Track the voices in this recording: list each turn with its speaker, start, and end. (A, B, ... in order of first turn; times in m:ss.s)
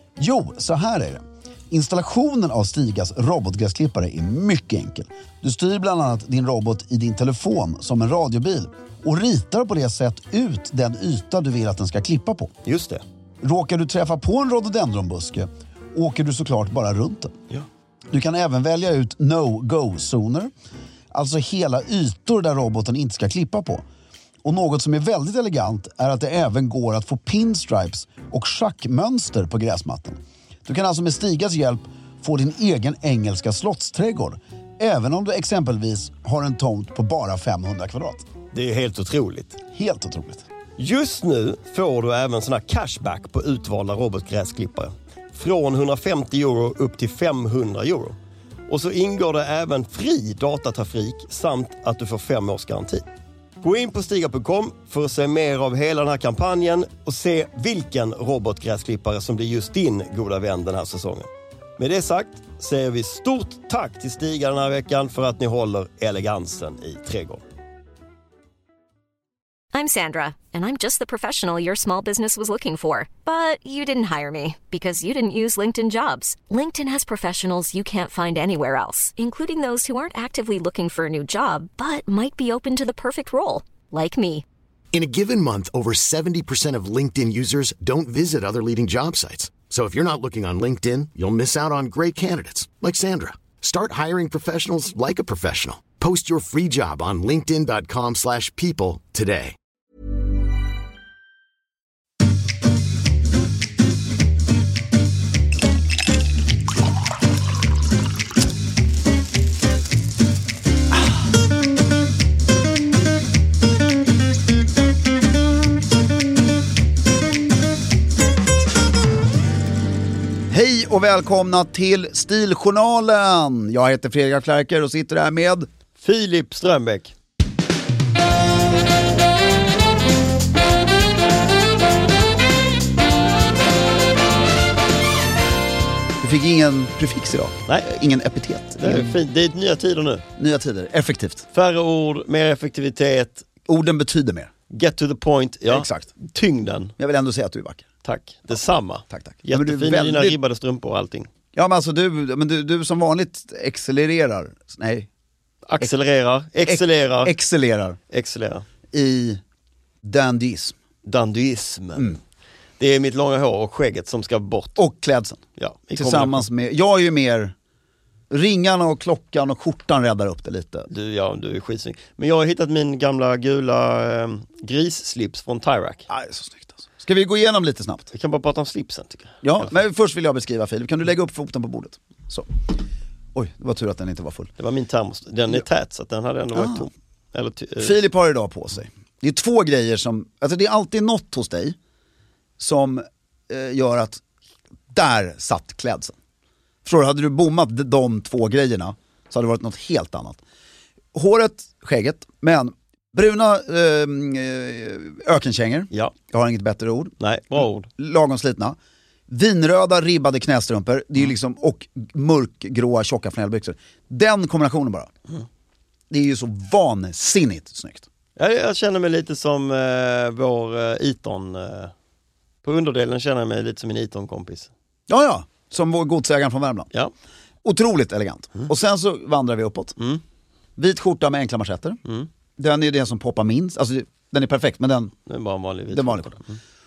0:00.2-0:12.5 A
0:12.6-0:13.0 B
0:13.4-0:17.3 A
0:18.1-0:20.5 A
0:21.1-0:23.8 A
0:24.4-0:38.2 A
0:38.5-0:39.6 B
0:39.7-0:40.4 A
0:40.8-0:53.0 B
0:53.6-1:07.4 B
1:09.7-1:24.4 C
1:24.9-1:39.6 D
2:00.5-2:05.7 A
2:06.0-2:07.1 B
2:16.2-2:19.2 A
2:18.8-2:20.2 B
2:20.4-2:21.5 A
2:21.5-2:23.4 B
2:23.7-2:24.5 A
2:24.7-2:26.9 B
2:25.7-2:26.1 A
2:27.0-2:27.8 A
2:28.0-2:31.3 B
2:29.1-2:30.4 A
2:31.5-2:35.1 A
2:35.7-2:37.3 B
2:36.6-2:38.0 A
2:38.1-2:38.6 B
2:38.9-2:39.4 A
2:40.0-2:40.7 A
2:41.0-2:42.2 B
2:42.8-2:44.8 B
2:44.8-2:45.4 A
2:45.6-2:46.5 B
2:46.0-2:47.5 A
2:48.3-2:50.9 A
2:50.9-2:56.1 B
2:56.1-2:58.1 A
2:58.1-2:59.7 B
2:59.4-3:02.8 A
3:03.3-3:04.5 A
3:04.6-3:07.9 B
3:06.5-3:06.9 A
3:07.8-3:11.8 A
3:12.6-3:14.2 A
3:14.9-3:16.1 A
3:16.8-3:20.4 A
3:21.1-3:28.8 A
3:27.2-3:27.9 B
3:29.3-3:35.1 A
3:36.1-3:38.0 A
3:38.4-3:41.9 B
3:42.6-3:44.7 B
3:45.1-3:46.9 A
3:47.6-3:50.0 A
3:50.0-3:50.2 B
3:50.8-3:52.0 A
3:52.6-3:55.1 A
3:55.2-3:56.6 B
3:55.9-3:56.4 A